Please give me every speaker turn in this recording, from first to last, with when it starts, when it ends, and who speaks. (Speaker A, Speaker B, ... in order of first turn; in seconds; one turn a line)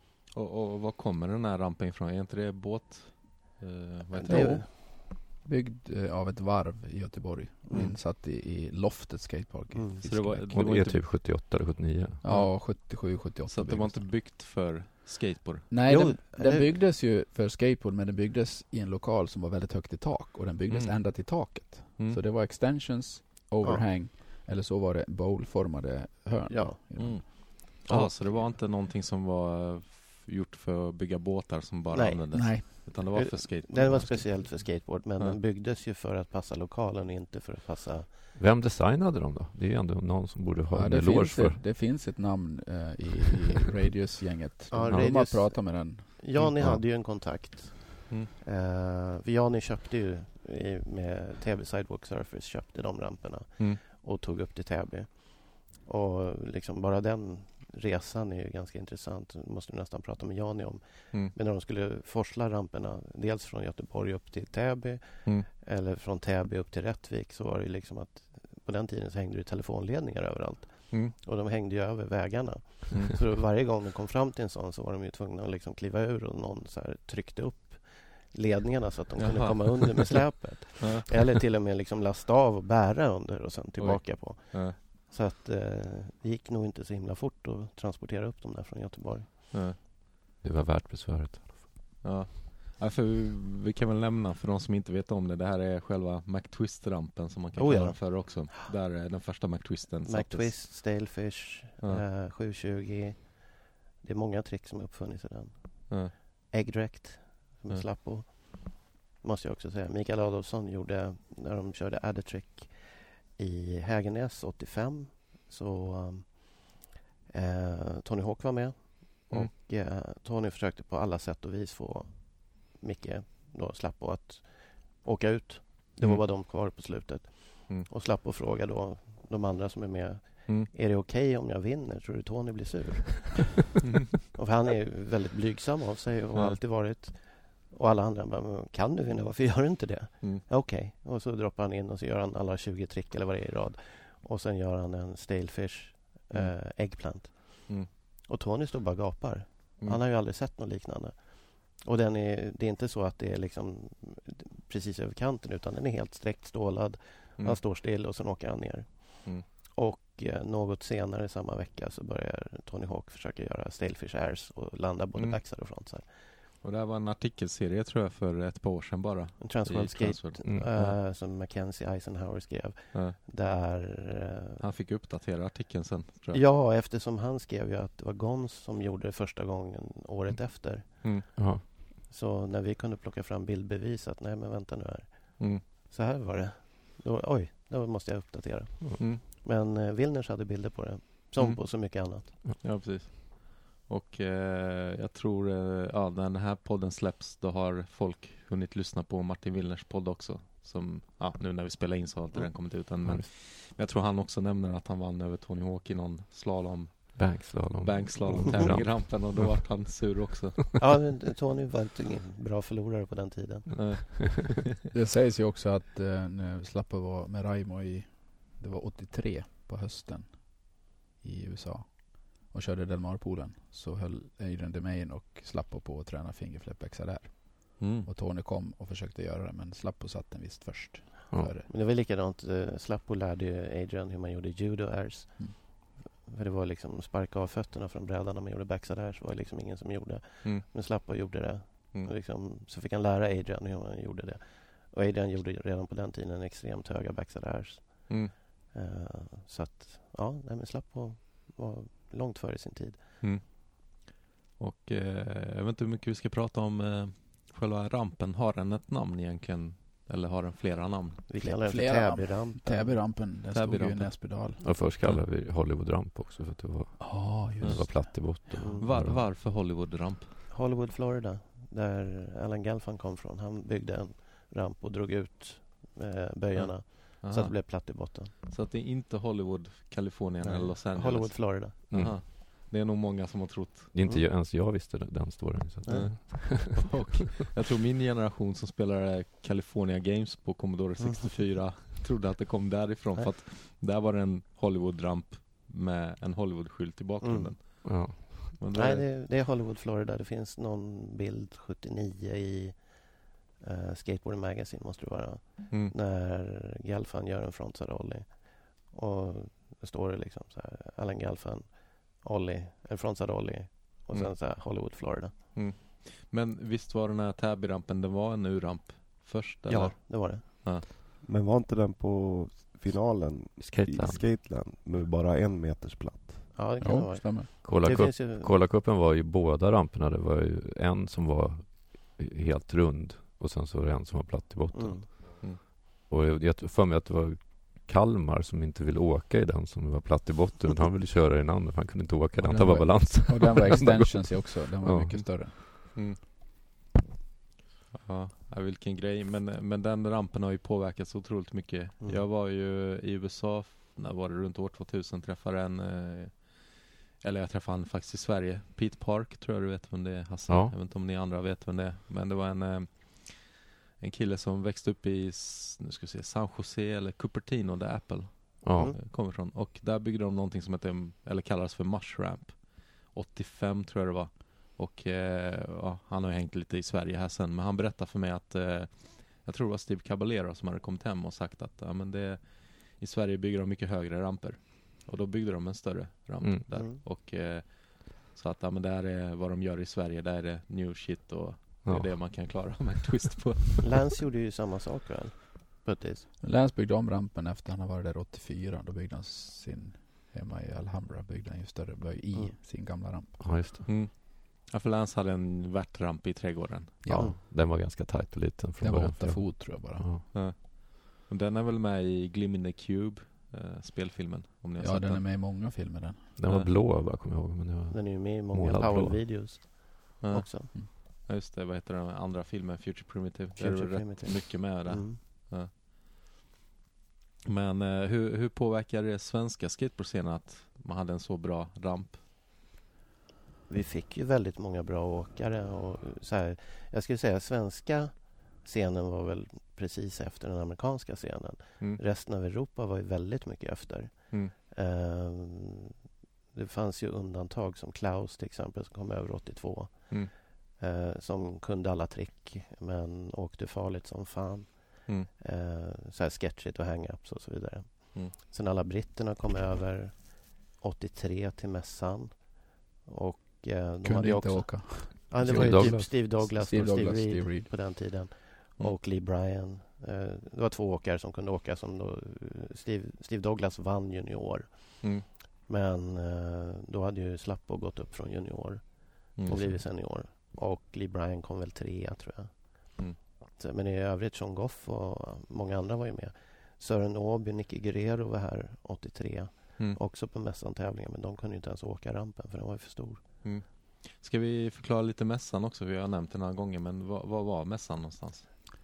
Speaker A: 0.3-4.6
Speaker B: 4.1-4.7
Speaker C: 4.3-10.8
Speaker B: 7.7-8.0
Speaker B: 9.8-10.0
Speaker A: 10.0-11.1
Speaker D: 10.5-12.2
Speaker C: 12.2-14.1
Speaker A: 12.3-12.9
Speaker A: 13.5-15.7
Speaker C: 15.7-27.2
Speaker B: 15.9-16.8
Speaker A: 20.7-22.2
Speaker B: 26.5-28.2
Speaker A: 27.0-35.4
Speaker B: 31.9-38.1
Speaker C: 32.3-32.9
Speaker D: 38.4-41.6
Speaker C: 40.7-46.8
Speaker B: 44.7-89.4
Speaker D: 44.9-45.3
Speaker A: 79.2-81.3
Speaker A: 83.8-84.8
Speaker A: 89.5-89.8
Speaker D: 90.4-91.7
Speaker A: 92.0-100.6
Speaker B: 97.5-98.5
Speaker B: 100.1-133.6
Speaker B: 134.2-166.1
Speaker A: 166.6-171.0
Speaker B: 169.4-174.6
Speaker A: 174.6-176.4
Speaker B: 176.3-181.5
Speaker D: 181.4-181.6
Speaker B: 182.1-192.3
Speaker A: 191.4-210.8
Speaker D: 207.2-209.5
Speaker B: 210.8-213.9
Speaker A: 213.8-214.7
Speaker C: 214.9-231.7
Speaker A: 227.8-228.1
Speaker B: 231.7-253.0
Speaker A: 253.2-261.3
Speaker B: 261.3-263.0
Speaker C: 261.4-264.6
Speaker A: 263.5-264.4
Speaker D: 264.6-269.2
Speaker C: 267.0-268.1
Speaker A: 267.6-270.4
Speaker B: 268.6-268.9
Speaker B: 270.5-278.3
Speaker A: 276.6-283.9
Speaker B: 280.4-281.8
Speaker D: 281.9-282.2
Speaker D: 283.9-287.0
Speaker B: 285.9-286.1
Speaker A: 285.9-299.1
Speaker B: 297.2-297.9
Speaker D: 297.8-298.5
Speaker B: 298.7-315.3
Speaker A: 315.5-320.9
Speaker B: 319.7-320.9
Speaker E: 321.2-326.5
Speaker D: 323.6-324.2
Speaker B: 326.5-328.5
Speaker C: 326.8-327.5
Speaker D: 327.6-345.4
Speaker B: 334.7-335.1
Speaker C: 342.4-345.6
Speaker A: 345.9-346.2
Speaker A: 347.9-393.9
Speaker B: 352.0-352.3
Speaker D: 360.5-360.7
Speaker D: 368.6-368.9
Speaker B: 386.7-387.0
Speaker D: 391.9-392.3
Speaker B: 393.8-396.3
Speaker C: 396.4-403.5
Speaker D: 403.4-403.9
Speaker A: 403.9-407.0
Speaker C: 407.0-407.4
Speaker D: 407.1-410.2
Speaker C: 408.8-410.1
Speaker A: 410.3-415.2
Speaker C: 414.8-416.3
Speaker D: 416.4-419.6
Speaker A: 416.4-416.7
Speaker B: 417.9-420.7
Speaker A: 420.2-425.7
Speaker B: 423.6-425.2
Speaker A: 427.4-432.2
Speaker B: 433.7-445.9
Speaker B: 446.5-483.0
Speaker C: 464.0-467.7
Speaker D: 465.4-466.1
Speaker A: 479.4-479.8
Speaker B: 483.6-493.2
Speaker A: 493.4-498.5